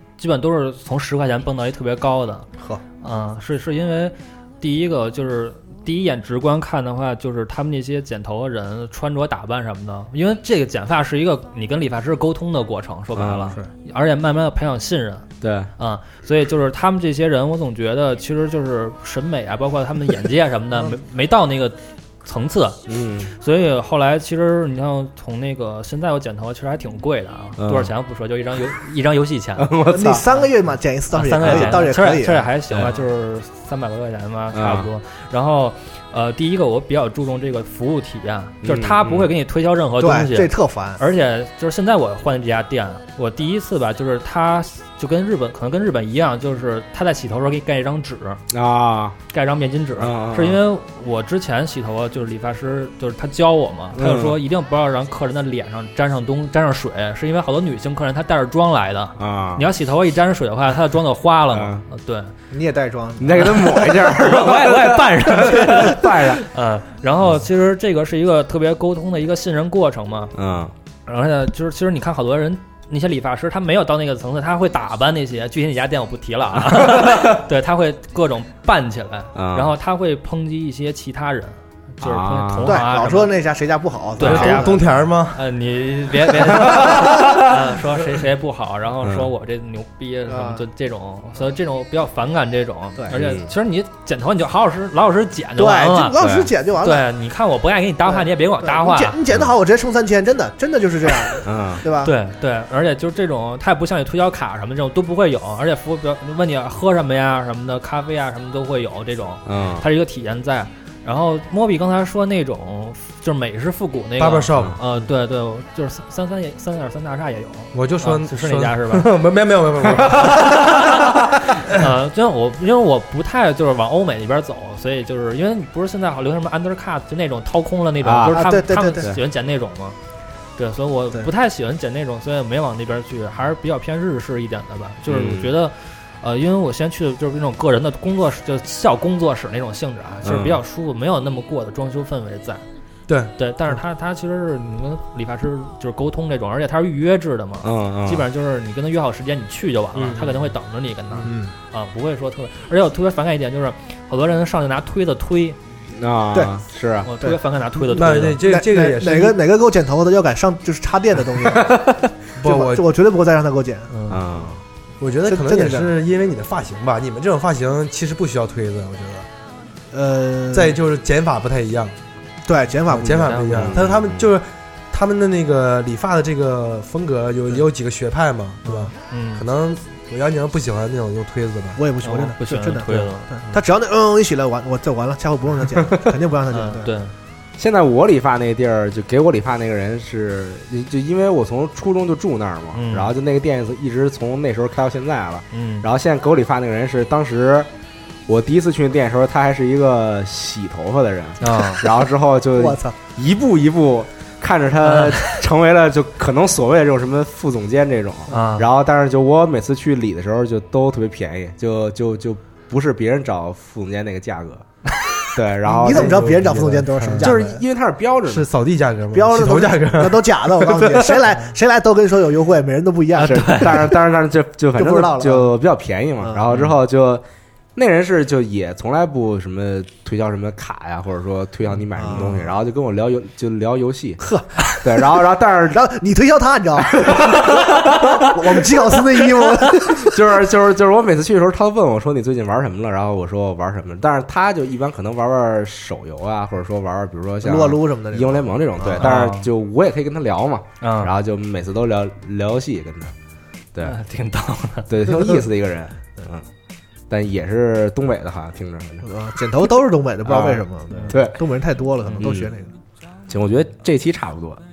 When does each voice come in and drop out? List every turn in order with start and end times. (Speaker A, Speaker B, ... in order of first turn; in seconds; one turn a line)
Speaker A: 0.2-2.5
Speaker A: 3.0-29.7
Speaker B: 13.1-13.6
Speaker B: 15.4-15.7
Speaker B: 22.9-23.3
Speaker B: 27.6-27.9
Speaker B: 29.6-30.2
Speaker C: 29.9-32.5
Speaker A: 31.1-48.4
Speaker B: 31.4-31.8
Speaker B: 32.7-33.0
Speaker B: 34.5-34.9
Speaker B: 38.6-39.3
Speaker C: 40.0-41.0
Speaker B: 48.5-49.2
Speaker A: 49.3-62.3
Speaker B: 50.0-50.6
Speaker B: 53.9-54.4
Speaker B: 59.2-59.7
Speaker B: 61.5-61.8
Speaker C: 62.5-63.9
Speaker B: 63.2-66.5
Speaker A: 63.3-70.3
Speaker B: 70.3-70.7
Speaker A: 71.0-83.3
Speaker B: 76.7-77.2
Speaker B: 79.3-79.7
Speaker B: 82.0-82.8
Speaker C: 82.6-84.8
Speaker A: 84.2-96.2
Speaker D: 84.2-85.4
Speaker B: 86.4-87.4
Speaker B: 89.0-89.3
Speaker C: 90.2-90.7
Speaker B: 93.1-93.5
Speaker C: 95.6-97.1
Speaker B: 96.2-96.5
Speaker A: 96.8-99.2
Speaker C: 98.0-102.1
Speaker B: 101.4-101.8
Speaker A: 101.9-119.1
Speaker B: 109.4-109.8
Speaker D: 114.2-114.8
Speaker D: 117.7-120.8
Speaker A: 120.2-130.0
Speaker B: 128.0-129.2
Speaker C: 128.3-129.1
Speaker A: 130.6-142.6
Speaker B: 135.1-135.5
Speaker B: 140.2-140.6
Speaker D: 143.1-143.3
Speaker A: 143.4-155.6
Speaker B: 147.6-148.2
Speaker D: 149.9-150.4
Speaker C: 151.2-151.5
Speaker B: 155.9-157.1
Speaker A: 157.0-158.4
Speaker D: 157.9-159.4
Speaker C: 157.9-161.8
Speaker B: 161.4-161.8
Speaker D: 162.3-162.8
Speaker C: 162.4-164.0
Speaker A: 163.9-164.2
Speaker B: 164.1-164.6
Speaker D: 165.0-169.3
Speaker C: 165.2-165.9
Speaker C: 169.9-170.8
Speaker D: 170.5-171.9
Speaker C: 172.4-173.6
Speaker D: 172.9-181.8
Speaker A: 173.2-173.7
Speaker B: 173.5-174.3
Speaker C: 178.7-178.9
Speaker A: 179.1-179.4
Speaker C: 181.8-186.9
Speaker A: 182.0-183.5
Speaker A: 186.5-187.1
Speaker B: 187.6-197.7
Speaker A: 192.7-193.1
Speaker A: 195.5-195.9
Speaker B: 198.3-214.6
Speaker A: 201.4-201.8
Speaker C: 202.6-203.0
Speaker A: 204.8-205.3
Speaker A: 208.3-208.7
Speaker B: 215.2-216.3
Speaker C: 215.6-217.6
Speaker D: 215.8-217.3
Speaker B: 217.2-218.5
Speaker D: 218.2-221.1
Speaker C: 219.1-223.9
Speaker A: 223.2-223.8
Speaker B: 223.2-227.2
Speaker C: 224.8-225.5
Speaker C: 226.2-226.6
Speaker B: 227.7-234.2
Speaker C: 231.9-232.5
Speaker C: 234.2-240.2
Speaker B: 234.8-235.8
Speaker B: 236.9-238.6
Speaker B: 239.2-253.1
Speaker C: 247.4-249.1
Speaker A: 249.0-249.5
Speaker A: 250.8-251.1
Speaker A: 253.8-254.9
Speaker B: 254.9-256.4
Speaker C: 255.1-255.4
Speaker B: 257.1-259.1
Speaker C: 259.0-262.7
Speaker B: 260.2-261.4
Speaker B: 262.1-262.5
Speaker B: 263.3-264.6